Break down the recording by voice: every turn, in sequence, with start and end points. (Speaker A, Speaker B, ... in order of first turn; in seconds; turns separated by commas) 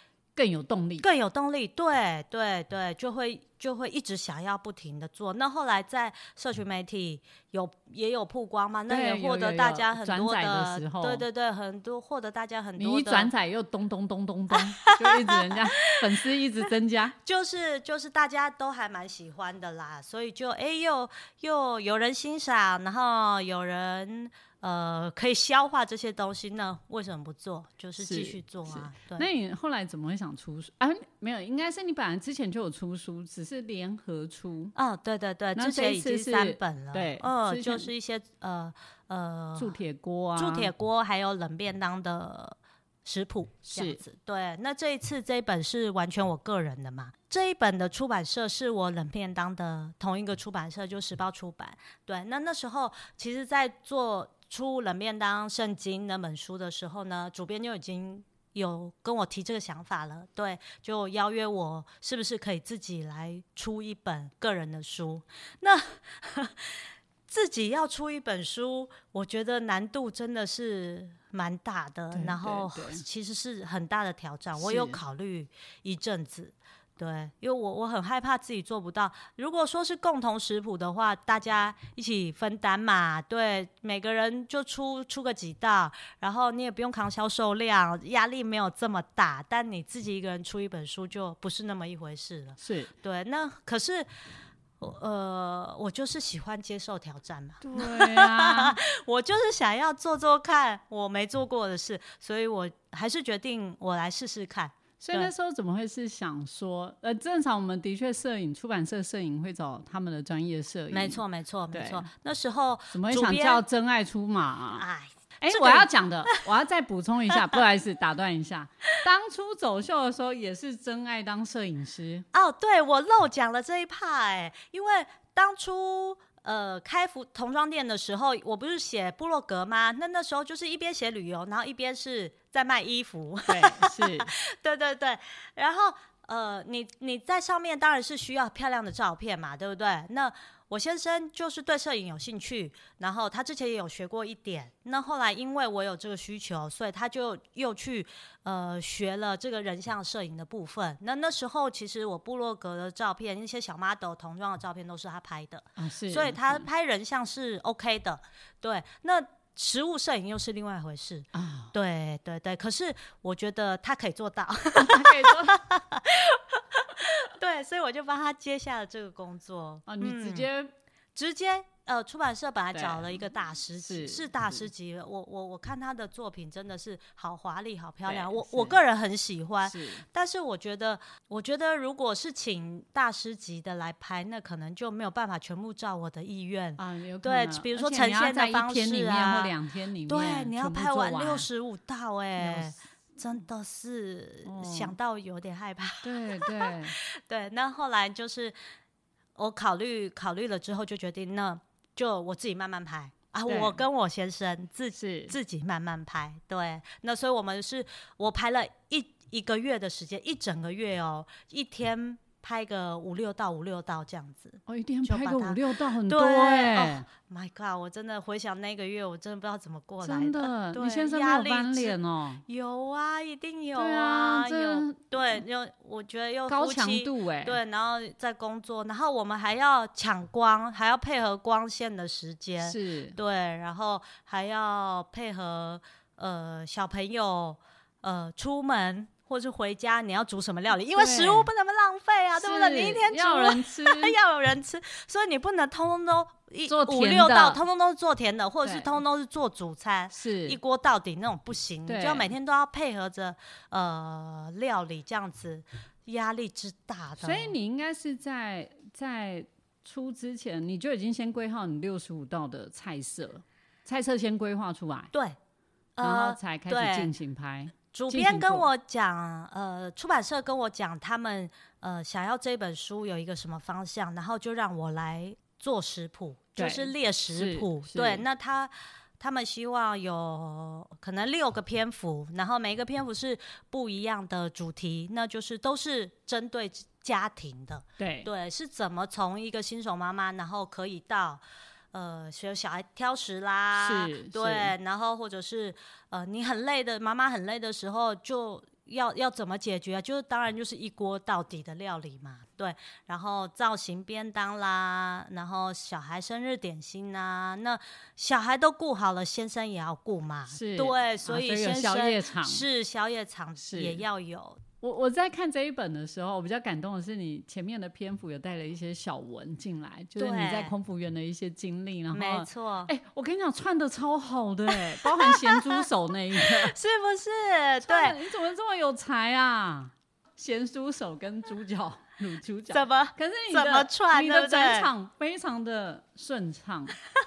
Speaker A: 0.4-1.1, Speaker B: 1.0-13.3, Speaker A: 8.9-11.2, Speaker A: 12.8-17.2, Speaker B: 14.7-15.6, Speaker B: 17.2-29.3, Speaker A: 28.0-34.7, Speaker B: 34.8-39.8, Speaker A: 35.5-37.9, Speaker A: 39.6-40.7, Speaker B: 40.4-94.1, Speaker A: 43.7-44.0, Speaker A: 72.1-73.0, Speaker A: 74.6-75.0, Speaker A: 92.6-92.9, Speaker B: 94.8-105.3, Speaker A: 97.6-98.8, Speaker A: 105.0-111.2, Speaker B: 110.9-113.6, Speaker A: 111.7-112.1, Speaker A: 112.9-114.9, Speaker B: 114.8-115.9, Speaker A: 115.4-122.3, Speaker B: 122.3-170.5, Speaker A: 133.5-134.3, Speaker A: 155.8-156.7, Speaker A: 161.3-161.7, Speaker A: 164.8-165.6, Speaker A: 169.9-170.7, Speaker B: 171.2-189.5, Speaker A: 172.7-173.2, Speaker A: 173.8-174.7, Speaker A: 178.1-178.8, Speaker A: 179.6-180.0, Speaker A: 186.8-191.5, Speaker B: 190.1-198.6, Speaker A: 192.4-192.8, Speaker A: 194.4-194.9, Speaker A: 196.0-196.9, Speaker B: 199.4-257.6, Speaker A: 203.5-203.8, Speaker A: 205.0-205.3, Speaker A: 214.7-217.1, Speaker A: 220.0-222.4, Speaker A: 223.8-225.0, Speaker A: 226.5-227.6, Speaker A: 232.6-233.2, Speaker A: 241.0-241.5, Speaker A: 242.4-244.2, Speaker A: 246.7-247.6, Speaker A: 248.6-248.9, Speaker A: 250.1-250.6, Speaker A: 251.9-252.3, Speaker A: 257.2-265.1, Speaker B: 265.1-265.4, Speaker B: 266.0-267.1, Speaker A: 266.0-268.7, Speaker B: 267.9-314.6, Speaker A: 276.6-278.2, Speaker A: 288.0-288.3, Speaker A: 293.8-294.7, Speaker A: 310.5-312.6, Speaker A: 313.6-314.0, Speaker A: 314.8-326.8, Speaker B: 320.2-320.7, Speaker B: 322.1-322.9, Speaker B: 324.7-325.9, Speaker B: 326.4-328.2, Speaker A: 327.8-337.0, Speaker B: 332.7-334.9